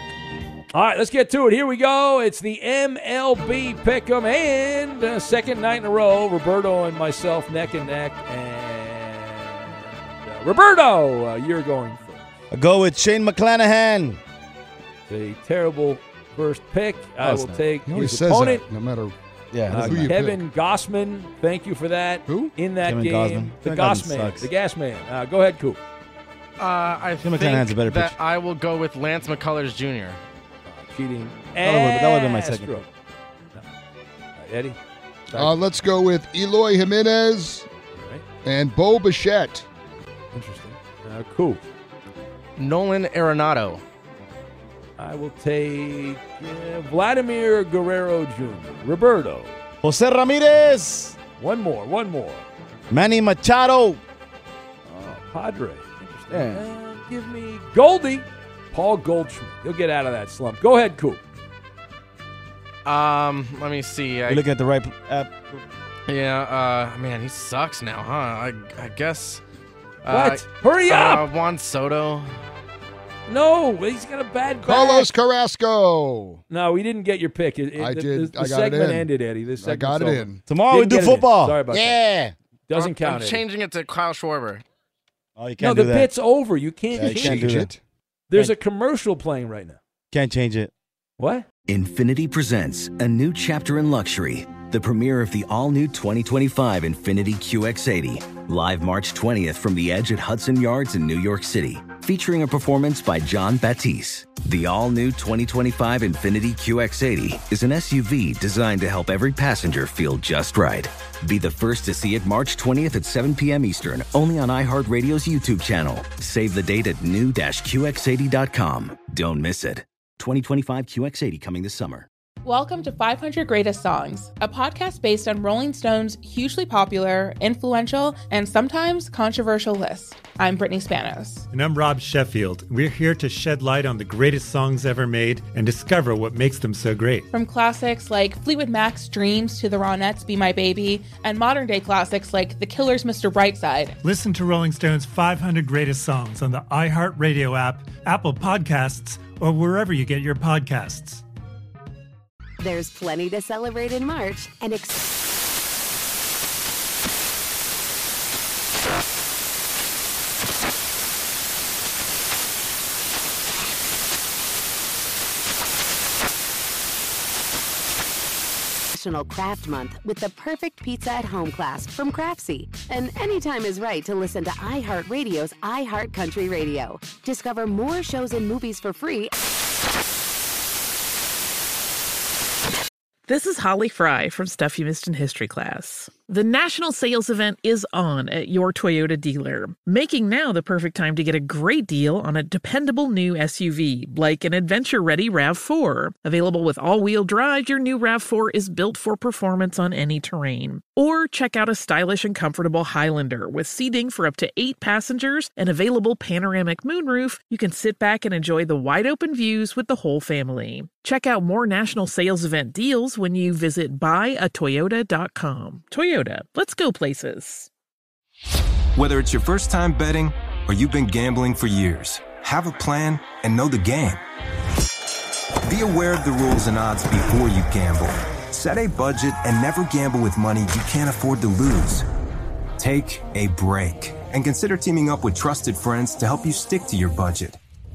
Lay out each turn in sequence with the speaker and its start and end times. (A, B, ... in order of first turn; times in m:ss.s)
0:00.7-0:12.3 A
0:12.5-0:14.2 B
0:15.1-0:18.6 A
0:17.2-0:17.6 B
0:17.8-0:19.1 C
0:19.5-0:20.3 B
0:19.7-0:20.4 C
0:19.7-0:25.8 A
0:22.3-0:24.5 B
0:26.6-0:30.2 D
0:27.2-0:28.2 B
0:30.6-0:32.9 A
0:31.6-0:32.8 B
0:34.4-0:34.8 A
0:35.3-0:35.6 A
0:35.3-0:37.7 C
0:37.9-0:38.2 A
0:38.4-0:39.6 C
0:40.3-0:41.7 A
0:42.6-0:43.8 D
0:45.0-0:49.6 A
0:49.8-0:51.2 B
0:51.4-0:52.4 A
0:52.9-0:54.0 B
0:54.8-1:01.2 A
0:56.3-0:56.6 B
1:02.8-1:04.5 D
1:04.3-1:05.6 B
1:06.1-1:09.4 D
1:10.0-1:12.4 D
1:10.1-1:11.3 A
1:13.3-1:15.1 A
1:14.6-1:16.4 C
1:16.5-1:22.0 A
1:17.8-1:20.4 C
1:20.4-1:22.3 B
1:22.7-1:23.4 A
1:22.7-1:24.6 D
1:25.4-1:26.1 B
1:25.6-1:27.7 A
1:26.9-1:27.8 B
1:27.0-1:27.7 C
1:28.3-1:29.8 A
1:30.1-1:30.7 B
1:31.2-1:31.4 A
1:31.7-2:02.1 E
2:02.4-2:11.5 F
2:11.5-2:17.3 G
2:17.3-2:24.0 F
2:24.0-2:31.2 G
2:32.6-2:35.0 H
2:48.9-2:59.3 H
3:03.3-3:37.7 I
3:39.0-3:44.2 J
3:45.6-3:52.0 J
3:52.8-3:57.6 J